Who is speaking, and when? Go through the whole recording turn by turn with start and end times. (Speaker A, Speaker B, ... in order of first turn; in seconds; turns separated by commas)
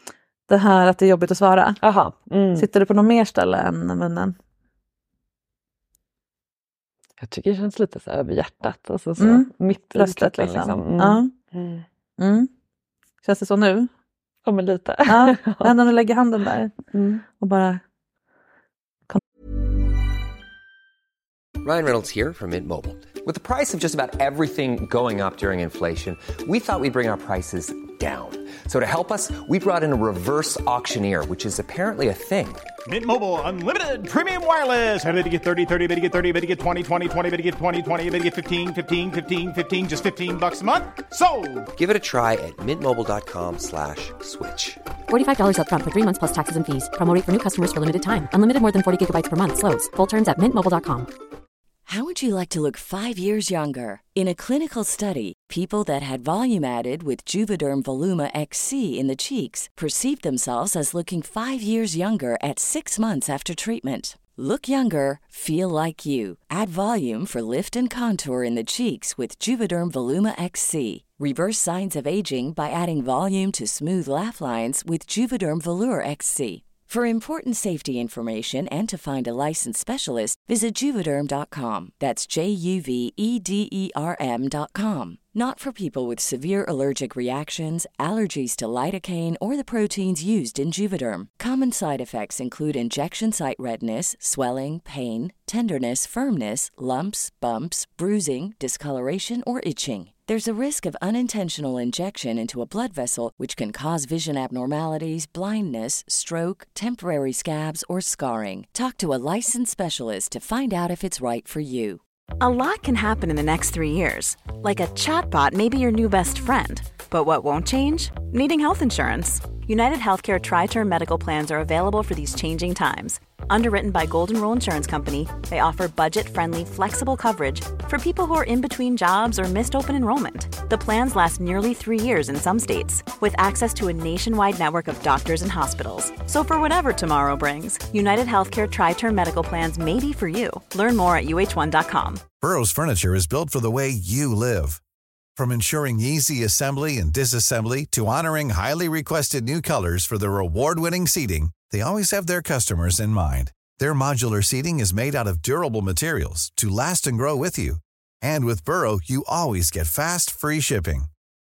Speaker A: 0.5-1.8, Speaker B: 1.8-2.7, Speaker A: 2.5-4.3, Speaker B: 7.2-11.8, Speaker A: 9.2-11.3, Speaker A: 12.2-12.5, Speaker A: 13.2-13.9, Speaker B: 14.4-15.7, Speaker A: 15.1-16.7, Speaker B: 16.9-17.2, Speaker A: 17.3-17.8, Speaker C: 21.6-32.6, Speaker D: 32.9-41.7, Speaker C: 41.8-44.8, Speaker E: 45.1-51.1, Speaker F: 51.9-112.0, Speaker G: 112.4-142.2, Speaker H: 142.4-144.8, Speaker H: 145.3-161.1